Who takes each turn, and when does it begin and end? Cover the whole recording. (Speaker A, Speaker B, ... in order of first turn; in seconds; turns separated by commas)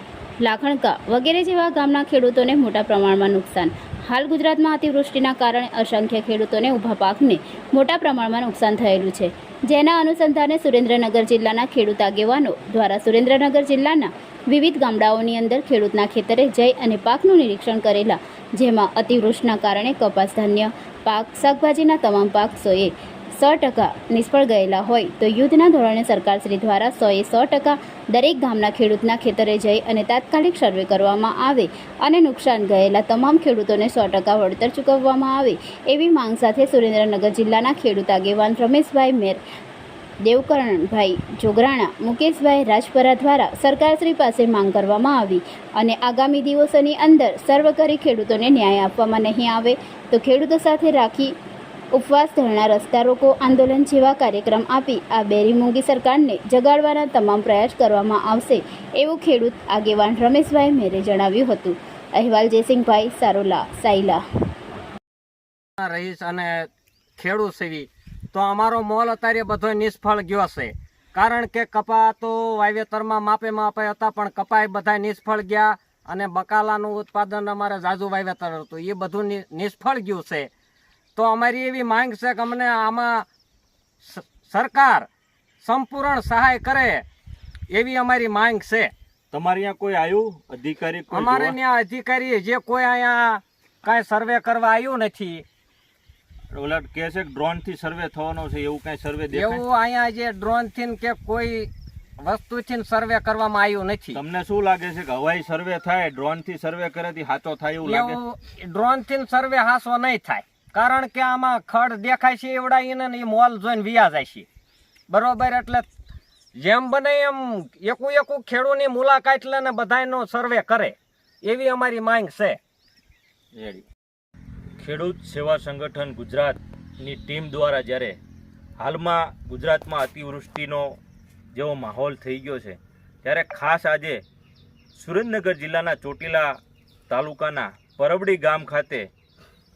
Speaker A: 0.4-39.4, Speaker A: 40.2-51.3, Speaker A: 51.9-64.2, Speaker B: 65.8-80.5, Speaker B: 81.2-83.3, Speaker B: 84.0-85.1, Speaker B: 85.6-87.0, Speaker B: 87.7-88.9, Speaker C: 89.3-91.6, Speaker B: 91.1-95.4, Speaker C: 96.5-99.6, Speaker B: 99.3-104.2, Speaker C: 104.1-108.2, Speaker B: 107.8-114.5, Speaker B: 115.1-115.9, Speaker B: 116.5-122.6, Speaker C: 123.5-123.8, Speaker C: 124.8-128.2, Speaker C: 128.8-131.0, Speaker C: 131.5-134.2, Speaker C: 134.9-136.6, Speaker C: 137.1-139.1